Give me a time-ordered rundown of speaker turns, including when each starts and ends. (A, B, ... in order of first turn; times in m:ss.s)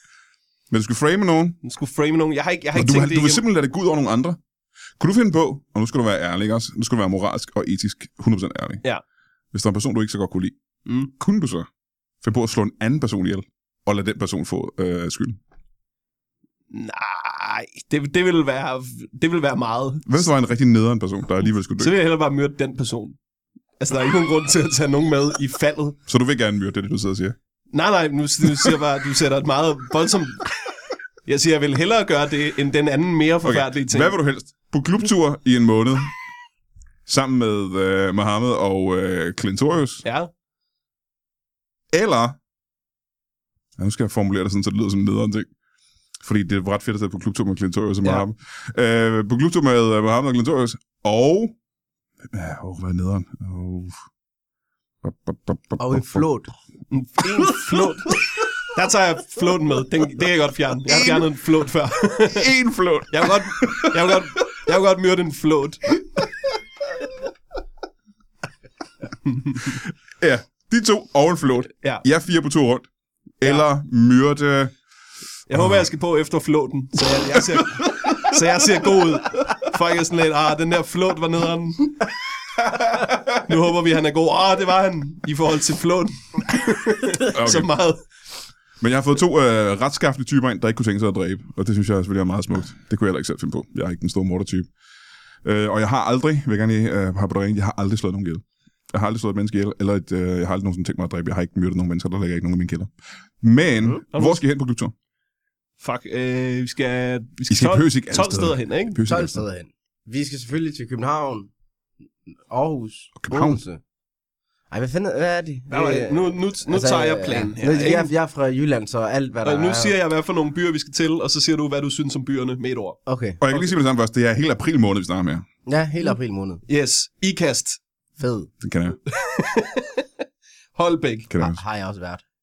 0:00.7-0:01.6 A
0:01.6-0:03.4 B
0:02.8-0:04.4 A
0:05.0-0:08.8 A
0:09.5-0:10.6 A
0:10.9-0:11.1 B
0:11.1-0:11.7 A
0:12.2-0:15.4 A
0:16.7-0:20.2 B
0:20.1-0:22.0 A
0:21.8-0:23.2 B
0:23.8-0:26.0 B
0:26.1-0:27.4 A
0:27.7-0:30.5 B
0:31.3-0:34.2 B
0:33.4-0:36.1 A
0:37.1-0:40.0 A
0:40.0-0:40.3 B
0:41.9-0:42.4 A
0:43.8-0:45.5 A
0:46.2-0:51.6 A
0:52.3-0:54.0 A
0:55.0-0:56.2 A
0:55.8-0:56.5 C
0:56.9-1:02.5 B
1:00.9-1:01.2 A
1:02.3-1:04.1 A
1:03.1-1:06.0 B
1:09.2-1:09.8 B
1:09.8-1:12.9 A
1:13.4-1:14.7 A
1:15.5-1:22.1 B
1:15.6-1:15.9 A
1:17.8-1:18.3 A
1:23.4-1:28.0 B
1:27.3-1:27.7 A
1:28.8-1:34.7 A
1:35.4-1:44.9 A
1:44.1-1:44.4 B
1:45.8-1:49.0 B
1:47.5-1:49.4 A
1:49.1-1:51.5 C
1:52.5-1:53.8 C
1:53.2-1:53.6 A
1:54.7-2:00.0 C
1:55.7-1:58.1 B
1:59.4-2:03.7 B
2:03.1-2:03.4 C
2:03.4-2:05.5 A
2:05.7-2:06.6 C
2:06.7-2:07.8 B
2:08.2-2:08.5 C
2:08.6-2:09.0 A
2:09.1-2:10.1 B
2:10.8-2:11.4 B
2:11.3-2:11.6 A
2:11.4-2:12.2 C